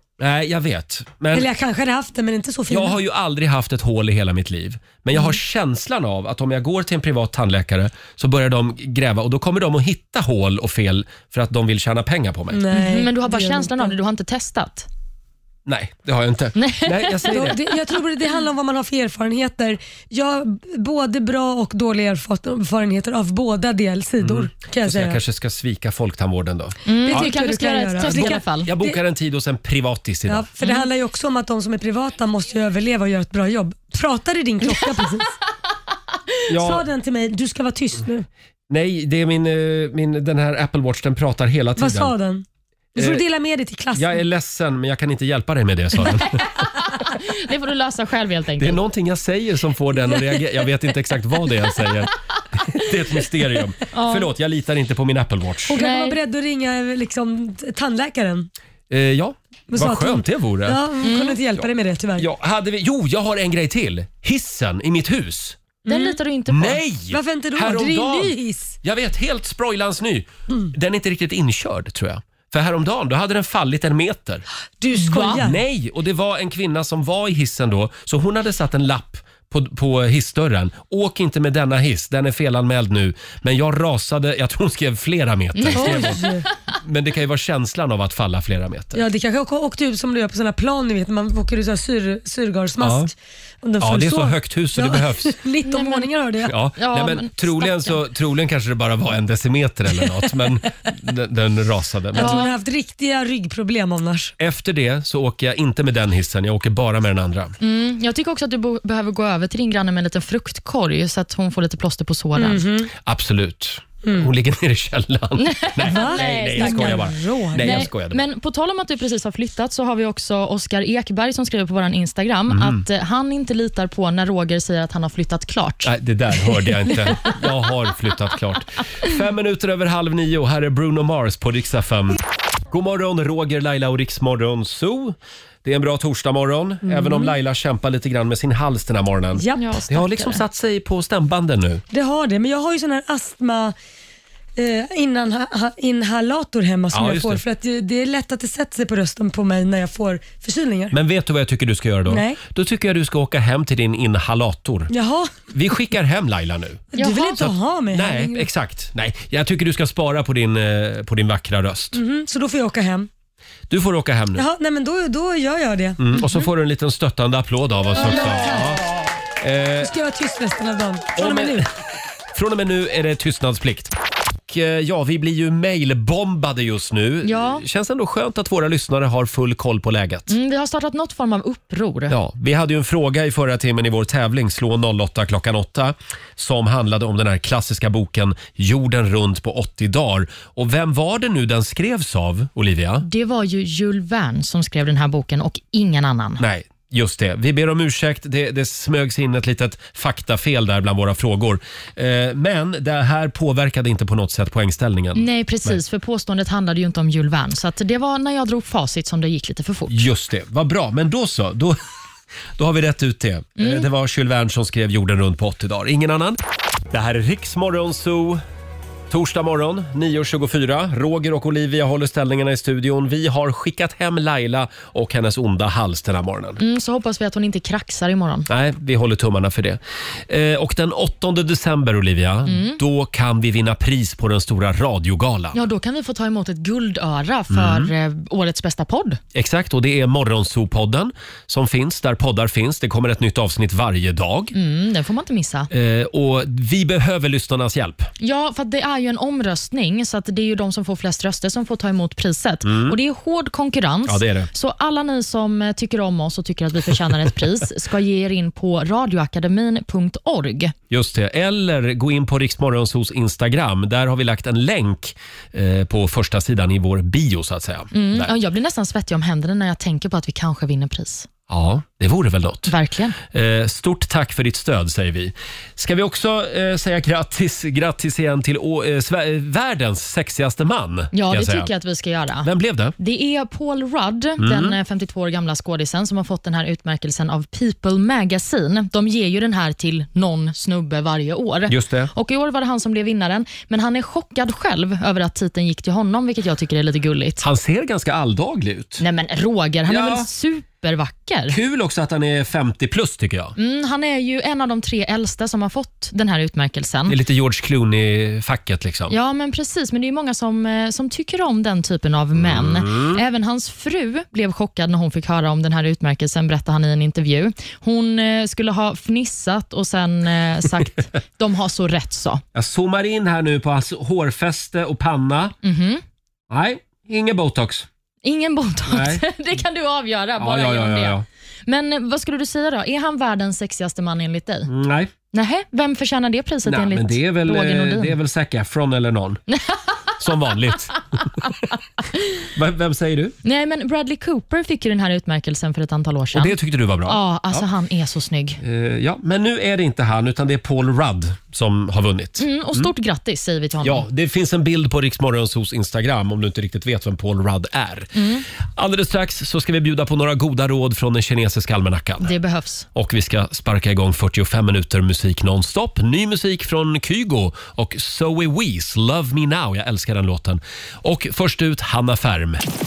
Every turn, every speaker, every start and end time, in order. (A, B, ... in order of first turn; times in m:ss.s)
0:00.2-0:01.5 A
0:01.3-0:03.0 B
0:02.7-0:12.6 A
0:12.5-0:13.9 B
0:12.7-0:14.9 C
0:15.7-0:17.6 A
0:16.6-0:17.5 C
0:17.3-0:25.2 B
0:24.2-0:27.3 A
0:26.9-0:28.7 C
0:26.9-0:29.0 B
0:28.0-0:30.5 A
0:30.3-0:35.3 B
0:30.6-0:30.9 C
0:36.5-0:36.8 A
0:36.5-0:38.3 B
0:38.7-0:42.1 A
0:41.8-0:44.2 B
0:43.0-0:43.2 A
0:44.0-0:46.4 A
0:46.2-0:48.8 C
0:48.6-0:55.8 A
0:53.9-0:54.3 C
0:55.7-0:58.5 B
0:55.7-0:56.2 C
0:58.9-1:00.8 A
0:59.7-1:02.3 B
1:01.0-1:01.4 C
1:01.6-1:05.6 A
1:05.9-1:06.2 B
1:05.9-1:06.8 C
1:06.5-1:14.4 A
1:07.1-1:08.8 B
1:14.8-1:15.6 B
1:14.9-1:15.4 C
1:15.4-1:26.2 A
1:25.6-1:26.4 C
1:25.7-1:26.5 B
1:26.8-1:29.0 A
1:29.0-1:36.6 B
1:32.8-1:33.1 A
1:33.8-1:35.4 A
1:35.6-1:36.1 C
1:36.5-1:42.4 A
1:36.8-1:38.0 C
1:42.1-1:42.5 C
1:42.1-1:44.3 B
1:44.4-1:47.6 A
1:47.6-1:52.6 C
1:52.4-1:52.9 B
1:53.0-1:58.2 A
1:55.4-2:05.9 C
1:55.9-1:57.9 B
2:02.5-2:02.8 A
2:05.8-2:12.2 A
2:12.7-2:21.8 A
2:16.8-2:17.3 B
2:19.4-2:19.8 B
2:19.5-2:20.4 C
2:21.9-2:23.7 B
2:24.6-2:30.9 B
2:26.9-2:27.4 A
2:30.9-2:34.9 A
2:32.1-2:32.4 B
2:34.9-2:35.3 B
2:35.5-2:42.0 A
2:36.9-2:38.5 B
2:36.9-2:37.4 C
2:41.9-2:43.1 B
2:43.7-2:44.4 A
2:44.4-2:46.5 B
2:46.0-2:48.8 A
2:47.9-2:48.8 B
2:49.4-2:49.9 A
2:49.8-2:51.7 B
2:51.2-2:51.6 A
2:52.3-2:53.9 A
2:54.5-3:00.3 A
2:57.2-2:57.6 C
3:00.3-3:02.1 C
3:02.1-3:13.0 A
3:13.0-3:16.4 C
3:16.4-3:25.8 A
3:25.1-3:30.0 C
3:29.9-3:31.8 A
3:32.6-3:36.4 A
3:33.6-3:33.9 C
3:36.9-3:38.4 A
3:39.1-3:46.6 A
3:46.6-3:48.5 C
3:48.5-3:55.6 A
3:52.5-3:52.8 C
3:55.5-3:59.2 C
3:57.5-3:57.9 A
3:59.3-4:04.5 A
4:04.5-4:05.7 C
4:05.7-4:08.1 A
4:08.2-4:20.7 C
4:12.7-4:13.0 A
4:14.1-4:14.5 A
4:20.9-4:28.3 A
4:27.9-4:31.3 C
4:31.5-4:32.7 A
4:32.7-4:33.2 C
4:33.3-4:41.7 A
4:41.1-4:57.4 C
4:42.4-4:42.9 A
4:44.4-4:44.8 A
4:51.7-4:52.1 A
4:57.4-4:59.0 A
4:59.0-5:01.6 C
4:59.9-5:00.3 A
5:01.5-5:03.6 A
5:03.6-5:07.2 C
5:07.1-5:09.1 A
5:09.1-5:22.4 C
5:12.4-5:13.2 A
5:22.6-5:25.6 A
5:25.6-5:26.0 C
5:26.5-5:27.9 A
5:28.2-5:34.7 C
5:28.9-5:29.2 A
5:30.4-5:31.2 A
5:34.7-5:35.1 A
5:35.3-5:38.2 C
5:36.6-5:39.4 A
5:39.5-5:39.8 C
5:40.2-5:41.3 A
5:42.1-5:42.4 C
5:42.6-5:43.4 A
5:43.4-5:48.6 C
5:46.3-5:47.6 A
5:48.6-5:52.9 A
5:52.4-5:54.1 C
5:53.8-5:58.2 A
5:58.2-5:58.4 C
5:58.8-6:02.3 A
6:02.2-6:02.9 C
6:02.9-6:12.6 A